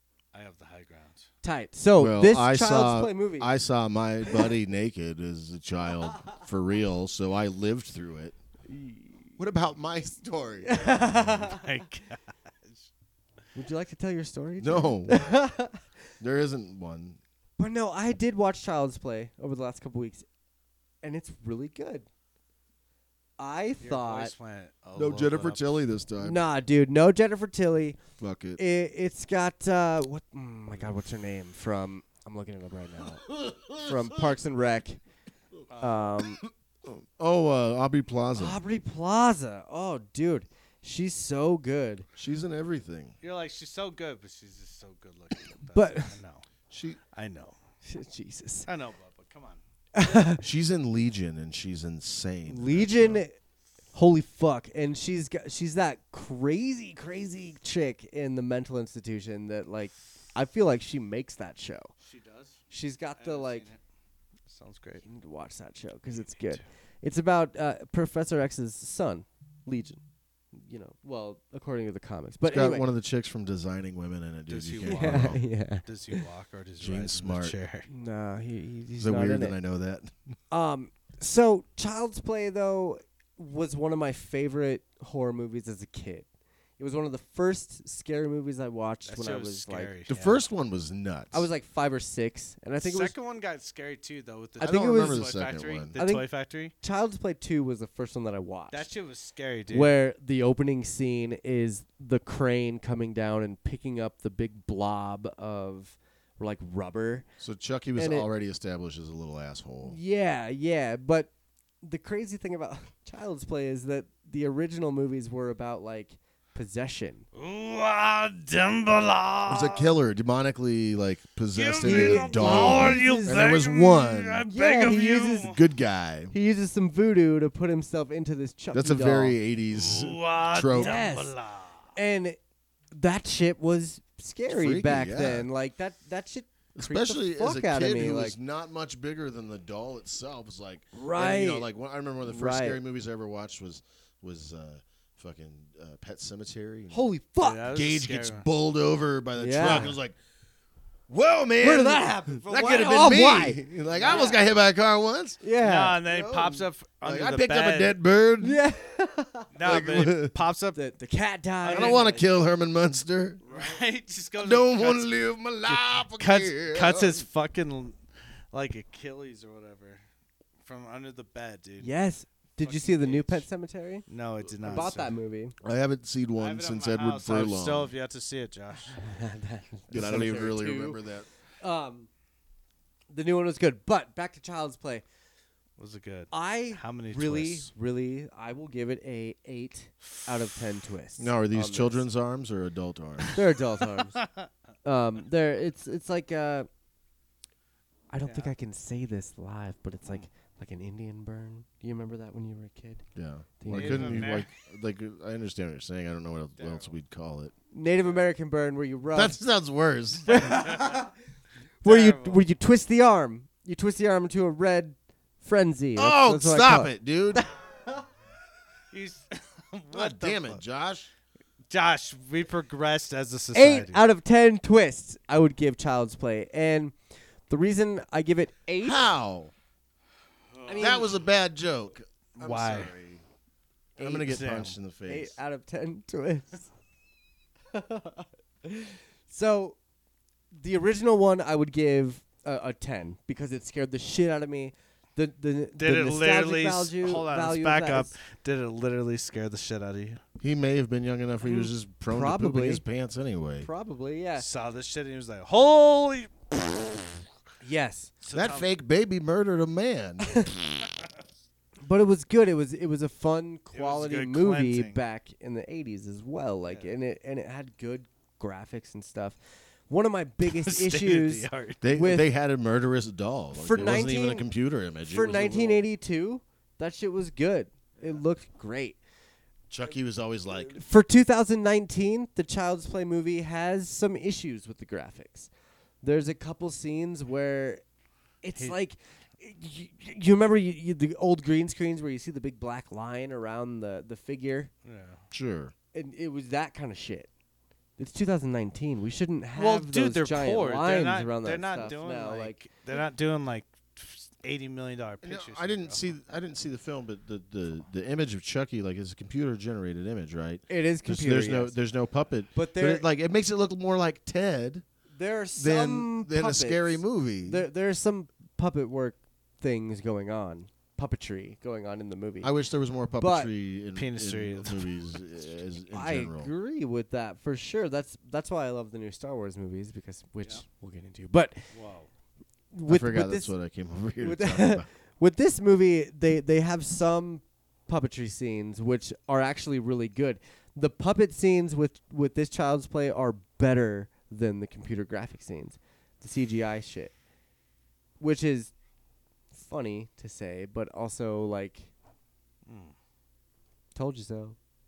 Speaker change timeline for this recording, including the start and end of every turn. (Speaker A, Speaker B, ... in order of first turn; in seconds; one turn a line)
Speaker A: 0.3-1.3
Speaker B: 1.4-3.5
Speaker C: 2.0-8.3
Speaker B: 8.7-9.3
Speaker C: 9.4-11.5
Speaker B: 10.6-11.6
Speaker A: 11.5-12.9
Speaker B: 13.5-15.8
Speaker C: 14.6-15.3
Speaker C: 16.2-17.2
Speaker B: 17.6-20.2
Speaker B: 21.0-22.1
Speaker B: 23.4-24.3
Speaker A: 23.8-25.6
Speaker C: 24.9-26.4
Speaker B: 26.2-28.0
Speaker C: 28.2-28.6
Speaker B: 28.6-33.2
Speaker C: 33.3-34.1
Speaker B: 33.8-35.0
Speaker A: 35.7-36.0
Speaker B: 35.8-36.4
Speaker C: 36.4-38.6
Speaker B: 38.3-42.1
Speaker C: 42.1-43.1
Speaker A: 43.2-46.4
Speaker B: 45.7-46.1
Speaker C: 46.7-47.0
Speaker A: 47.1-47.5
Speaker B: 47.8-48.7
Speaker A: 48.6-49.6
Speaker B: 49.9-50.4
Speaker C: 50.4-53.2
Speaker B: 52.5-53.4
Speaker B: 53.9-61.9
Speaker A: 62.0-62.6
Speaker B: 62.7-63.7
Speaker A: 63.2-63.8
Speaker A: 64.5-65.0
Speaker B: 65.0-70.0
Speaker A: 66.1-66.6
Speaker B: 70.5-72.8
Speaker C: 72.5-75.4
Speaker A: 74.5-77.9
Speaker B: 74.8-76.2
Speaker C: 76.8-77.5
Speaker B: 77.9-79.5
Speaker C: 79.0-80.2
Speaker B: 80.5-86.3
Speaker B: 86.8-89.9
Speaker A: 89.0-90.4
Speaker C: 90.1-91.5
Speaker B: 91.3-93.1
Speaker A: 92.8-96.7
Speaker B: 94.6-95.2
Speaker C: 94.6-96.0
Speaker B: 96.0-96.3
Speaker B: 96.8-98.9
Speaker A: 98.7-99.9
Speaker B: 99.7-107.2
Speaker C: 107.4-110.0
Speaker B: 108.0-108.3
Speaker B: 109.8-111.3
Speaker B: 111.8-117.2
Speaker A: 117.3-119.9
Speaker C: 119.5-124.5
Speaker A: 121.5-125.6
Speaker B: 121.8-123.4
Speaker B: 124.5-125.5
Speaker C: 125.4-126.3
Speaker B: 126.3-129.4
Speaker C: 128.7-131.0
Speaker A: 129.7-131.9
Speaker B: 130.7-131.3
Speaker B: 131.9-132.4
Speaker B: 132.9-138.3
Speaker C: 134.5-135.5
Speaker C: 136.7-147.0
Speaker B: 140.9-141.7
Speaker B: 142.2-142.8
Speaker B: 146.9-147.7
Speaker A: 147.4-148.4
Speaker C: 147.7-150.2
Speaker B: 149.4-149.9
Speaker C: 151.1-155.4
Speaker B: 151.6-154.3
Speaker A: 152.5-152.9
Speaker A: 154.0-154.3
Speaker B: 155.4-156.0
Speaker A: 155.6-157.9
Speaker C: 156.0-158.6
Speaker B: 158.4-160.0
Speaker A: 159.5-160.8
Speaker C: 159.6-160.3
Speaker B: 160.7-162.2
Speaker A: 161.6-162.1
Speaker C: 161.7-163.4
Speaker A: 163.4-165.2
Speaker C: 164.4-167.2
Speaker A: 166.2-168.0
Speaker A: 168.5-170.0
Speaker A: 170.6-171.9
Speaker B: 171.8-174.0
Speaker A: 172.6-173.4
Speaker A: 174.1-175.1
Speaker C: 174.6-174.9
Speaker B: 174.6-175.5
Speaker C: 175.6-177.9
Speaker A: 176.4-179.0
Speaker B: 179.0-181.0
Speaker C: 179.9-181.3
Speaker B: 181.6-182.1
Speaker B: 183.1-185.0
Speaker A: 185.8-187.7
Speaker B: 186.3-192.0
Speaker C: 191.2-193.4
Speaker B: 193.3-194.2
Speaker A: 194.1-194.5
Speaker B: 194.8-196.7
Speaker B: 198.1-203.0
Speaker A: 198.2-198.5
Speaker C: 203.2-207.5
Speaker B: 203.6-204.4
Speaker A: 203.7-204.5
Speaker A: 206.6-206.9
Speaker B: 207.7-209.4
Speaker C: 209.1-210.4
Speaker B: 210.3-211.1
Speaker A: 210.3-211.1
Speaker B: 211.8-218.0
Speaker A: 211.8-212.4
Speaker C: 215.9-217.5
Speaker A: 218.9-220.6
Speaker C: 219.9-221.1
Speaker A: 221.7-224.0
Speaker B: 223.5-226.9
Speaker B: 227.5-229.1
Speaker C: 228.8-229.5
Speaker A: 230.6-231.1
Speaker B: 230.7-231.1
Speaker C: 230.8-233.2
Speaker A: 232.4-232.9
Speaker C: 234.0-235.4
Speaker B: 234.0-234.3
Speaker A: 234.2-234.8
Speaker B: 235.1-236.7
Speaker B: 237.7-239.8
Speaker B: 240.5-248.1
Speaker A: 245.8-250.2
Speaker C: 250.4-253.7
Speaker B: 252.1-252.8
Speaker B: 253.6-254.4
Speaker A: 254.4-257.2
Speaker B: 257.6-258.1
Speaker A: 258.2-258.7
Speaker C: 258.3-260.5
Speaker B: 260.2-260.5
Speaker B: 261.8-269.4
Speaker A: 263.7-265.0
Speaker B: 269.9-272.3
Speaker A: 270.4-271.8
Speaker C: 271.8-275.9
Speaker B: 273.5-274.5
Speaker B: 275.1-279.0
Speaker C: 279.7-280.8
Speaker B: 280.7-285.5
Speaker B: 286.0-287.8
Speaker B: 288.4-294.7
Speaker A: 294.8-295.2
Speaker C: 295.3-295.7
Speaker B: 295.9-297.3
Speaker B: 298.0-302.6
Speaker A: 299.6-306.0
Speaker C: 305.2-314.8
Speaker B: 310.7-311.7
Speaker B: 312.5-313.1
Speaker B: 315.1-322.5
Speaker C: 315.6-317.6
Speaker C: 322.4-326.5
Speaker B: 323.2-323.5
Speaker A: 323.9-324.9
Speaker B: 325.9-331.7
Speaker A: 331.7-332.1
Speaker B: 332.7-333.5
Speaker C: 332.9-334.9
Speaker B: 334.2-347.1
Speaker B: 348.2-348.7
Speaker B: 349.5-351.9
Speaker A: 352.6-352.9
Speaker B: 353.9-354.6